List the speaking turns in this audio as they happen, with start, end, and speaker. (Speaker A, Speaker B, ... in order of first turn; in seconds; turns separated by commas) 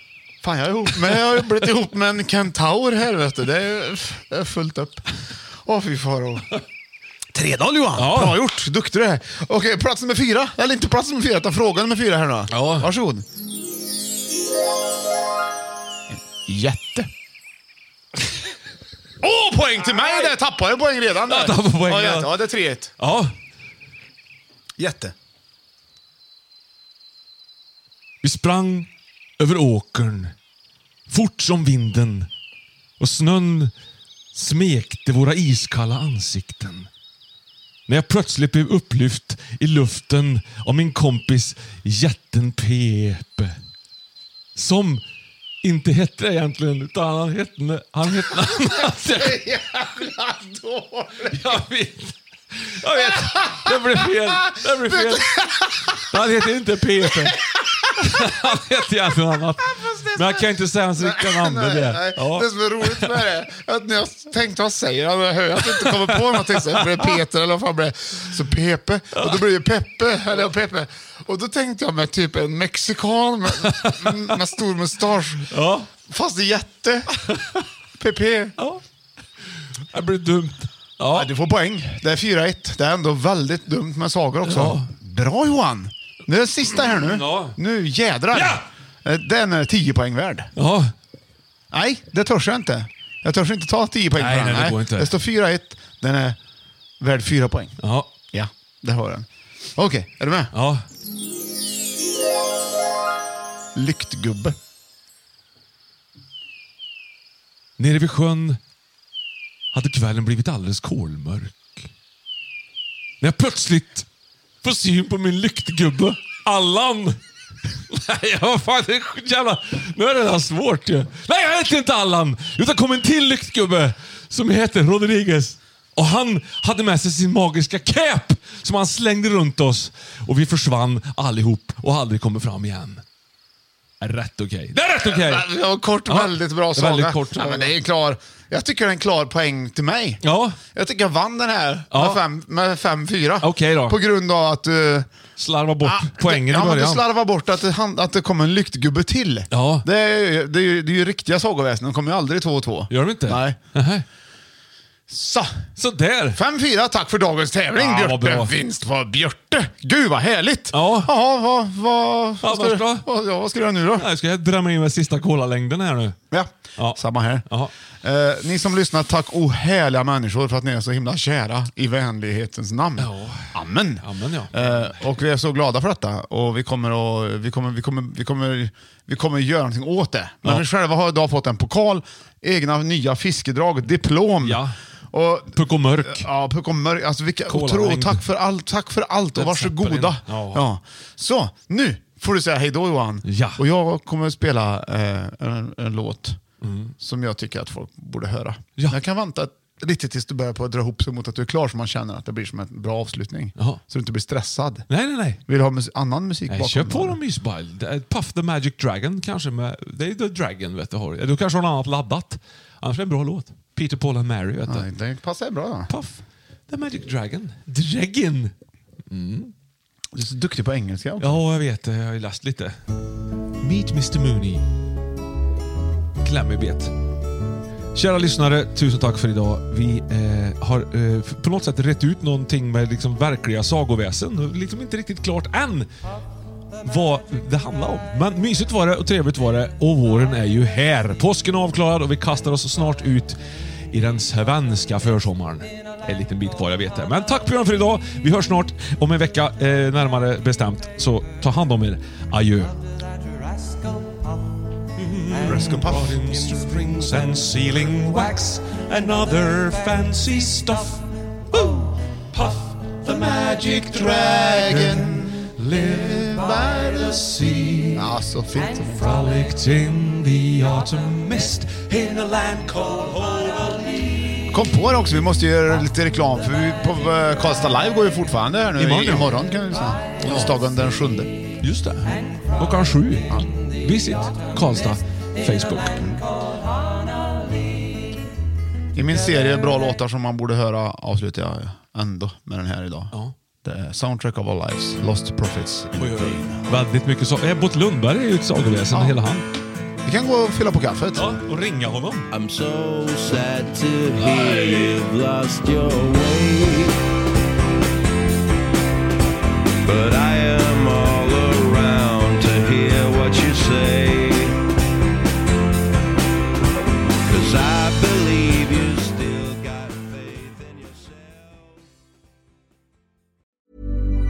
Speaker A: 0.4-5.0, Speaker A: 5.6-6.5, Speaker A: 7.3-13.2, Speaker B: 7.9-8.4, Speaker B: 12.5-12.9, Speaker A: 16.1-17.1, Speaker A: 19.2-22.9, Speaker B: 21.3-22.4, Speaker B: 23.0-23.3, Speaker A: 24.8-25.1, Speaker B: 28.2-28.9, Speaker B: 29.4-30.3, Speaker B: 31.1-32.3, Speaker B: 33.0-33.7, Speaker B: 34.3-36.9, Speaker B: 37.9-43.5, Speaker B: 44.5-45.0, Speaker B: 45.6-49.5, Speaker A: 48.3-51.6, Speaker B: 51.3-57.4, Speaker A: 53.0-56.1, Speaker A: 57.0-58.5, Speaker B: 58.0-63.2, Speaker A: 59.7-75.5, Speaker B: 65.6-67.2, Speaker B: 69.2-69.4, Speaker B: 73.6-74.3, Speaker B: 75.5-75.9, Speaker A: 76.0-77.1, Speaker B: 77.3-77.6, Speaker A: 78.0-78.5, Speaker B: 79.9-81.3, Speaker A: 81.1-90.5, Speaker B: 84.4-84.9, Speaker B: 86.8-87.6, Speaker B: 88.3-88.6, Speaker B: 90.5-90.9, Speaker A: 91.7-96.4, Speaker B: 94.1-95.1, Speaker A: 97.0-97.8, Speaker B: 97.8-98.1, Speaker A: 98.3-100.5, Speaker B: 100.5-100.8, Speaker A: 103.7-104.5, Speaker B: 107.8-108.6, Speaker B: 109.7-111.9, Speaker B: 113.2-114.0, Speaker B: 114.6-117.2, Speaker B: 117.9-133.0, Speaker B: 134.0-135.5, Speaker A: 135.0-145.1, Speaker B: 136.1-137.7, Speaker B: 140.2-140.6, Speaker B: 141.9-142.2, Speaker B: 143.4-144.0, Speaker B: 145.4-147.0, Speaker A: 145.8-153.6, Speaker B: 149.5-149.8, Speaker B: 152.9-154.0, Speaker A: 155.1-155.5, Speaker B: 155.8-156.4, Speaker A: 156.3-164.1, Speaker B: 157.8-158.5, Speaker B: 160.7-161.1, Speaker B: 162.4-163.1, Speaker B: 164.0-166.2, Speaker A: 166.3-167.4, Speaker B: 166.8-167.7, Speaker A: 168.0-196.4, Speaker B: 173.0-174.9, Speaker B: 184.4-184.8, Speaker B: 185.5-186.3, Speaker B: 187.5-188.2, Speaker B: 189.3-190.6, Speaker B: 193.2-193.6, Speaker B: 196.6-196.9, Speaker A: 197.0-204.9, Speaker B: 204.9-205.4, Speaker A: 205.4-207.2, Speaker B: 206.5-214.9, Speaker A: 214.7-215.9, Speaker B: 215.9-218.5, Speaker B: 219.1-219.5, Speaker A: 220.1-221.4, Speaker B: 221.2-222.8, Speaker B: 223.6-224.6, Speaker B: 226.2-226.9, Speaker B: 227.9-235.9, Speaker B: 236.8-243.4, Speaker B: 243.9-252.8, Speaker B: 254.9-268.1, Speaker A: 255.4-256.2, Speaker A: 263.7-265.4, Speaker A: 267.9-269.1, Speaker B: 268.9-274.4, Speaker A: 274.5-281.3, Speaker B: 278.8-279.4, Speaker B: 280.2-280.6, Speaker B: 281.6-286.2, Speaker A: 288.9-293.1, Speaker A: 293.6-296.6, Speaker B: 296.0-299.4, Speaker A: 298.9-299.2, Speaker A: 300.0-301.3, Speaker B: 301.1-302.3, Speaker C: 302.3-306.9, Speaker B: 304.2-305.0, Speaker C: 309.8-314.5, Speaker C: 317.3-321.6